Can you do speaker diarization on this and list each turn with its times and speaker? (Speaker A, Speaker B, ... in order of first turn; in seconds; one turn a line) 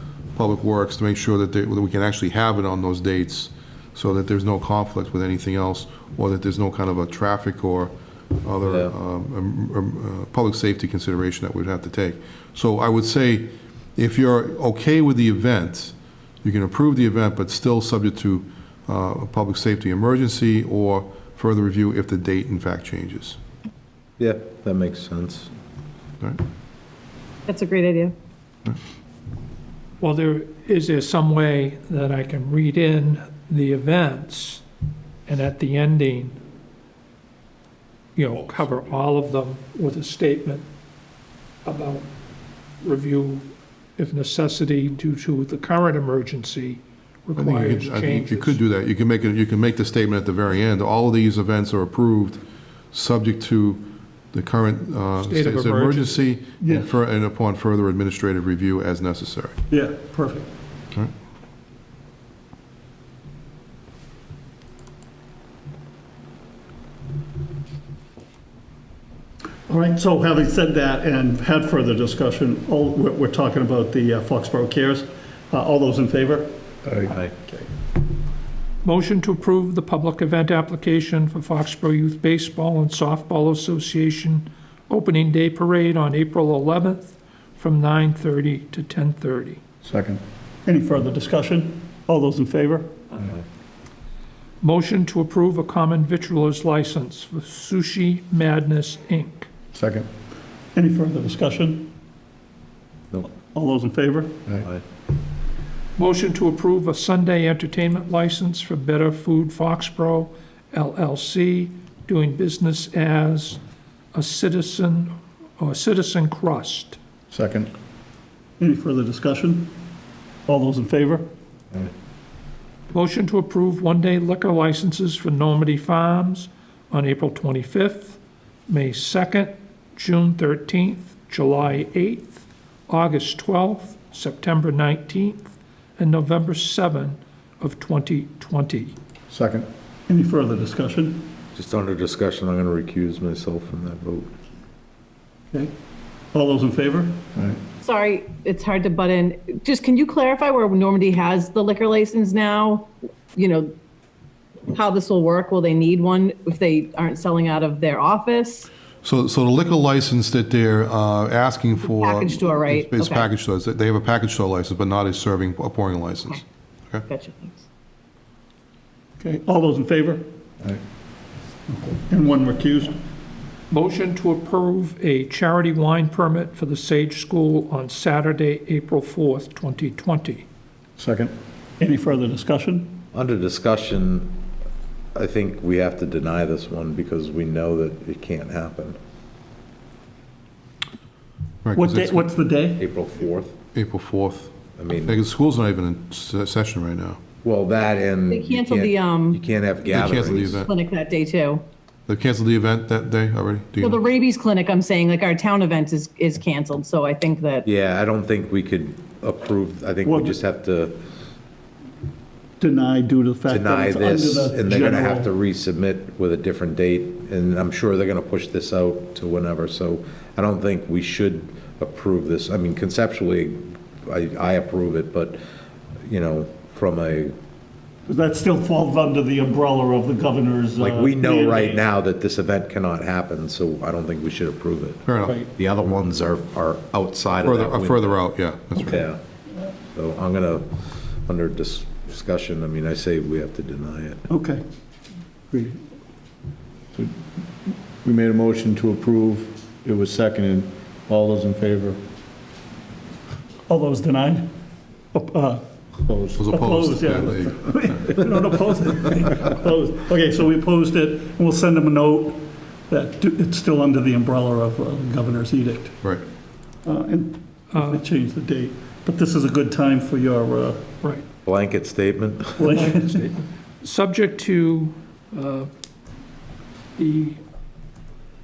Speaker A: 0.3-23.4
Speaker B: 8.6-8.9
Speaker B: 24.2-25.5
Speaker C: 27.5-28.1
Speaker D: 30.0-34.6
Speaker D: 35.3-36.4
Speaker D: 38.2-40.7
Speaker A: 38.5-39.0
Speaker D: 41.6-42.1
Speaker D: 42.8-48.6
Speaker A: 47.4-52.4
Speaker A: 52.9-59.6
Speaker D: 55.2-56.4
Speaker E: 56.6-56.9
Speaker E: 59.7-60.5
Speaker E: 69.7-76.5
Speaker F: 76.9-77.1
Speaker D: 78.8-89.6
Speaker F: 89.8-90.2
Speaker E: 90.7-93.1
Speaker D: 94.6-99.5
Speaker F: 99.7-100.1
Speaker E: 100.8-101.9
Speaker E: 103.4-104.4
Speaker B: 104.5-104.8
Speaker D: 106.0-113.6
Speaker D: 114.1-117.0
Speaker F: 117.3-117.7
Speaker E: 118.6-119.7
Speaker E: 120.5-121.3
Speaker D: 122.9-138.9
Speaker F: 139.3-139.7
Speaker E: 140.1-141.3
Speaker B: 141.5-144.3
Speaker E: 146.3-147.2
Speaker F: 147.3-147.6
Speaker C: 147.8-153.7
Speaker C: 154.7-158.7
Speaker A: 159.0-167.0
Speaker C: 161.8-163.3
Speaker C: 167.1-167.6
Speaker E: 169.2-170.3
Speaker E: 171.8-173.0
Speaker D: 173.7-180.4
Speaker F: 181.0-181.3
Speaker E: 181.8-183.0
Speaker B: 183.1-184.3
Speaker B: 185.1-189.0
Speaker A: 191.6-192.3
Speaker E: 191.7-192.9
Speaker B: 192.8-193.5
Speaker A: 193.7-197.2
Speaker B: 194.8-195.1
Speaker B: 197.4-200.6
Speaker C: 198.3-199.4
Speaker A: 199.9-200.7
Speaker C: 200.3-201.6
Speaker A: 202.1-204.0
Speaker C: 203.8-207.7
Speaker B: 207.7-210.9
Speaker E: 210.0-210.4
Speaker E: 212.6-215.3
Speaker B: 213.5-225.3
Speaker B: 226.1-227.3
Speaker E: 228.1-231.8
Speaker B: 230.8-238.2
Speaker A: 235.0-235.4
Speaker A: 237.4-239.1
Speaker B: 238.8-239.2
Speaker B: 239.9-240.7
Speaker B: 241.2-244.2
Speaker E: 244.3-244.6
Speaker E: 245.5-245.8
Speaker F: 246.9-252.0
Speaker E: 253.7-254.5
Speaker E: 255.1-255.6
Speaker F: 256.0-256.4
Speaker A: 256.3-258.1
Speaker E: 256.4-266.0
Speaker E: 266.8-270.9
Speaker D: 267.7-268.0
Speaker B: 271.4-272.8
Speaker E: 272.6-273.2
Speaker D: 272.7-275.7
Speaker D: 277.0-277.4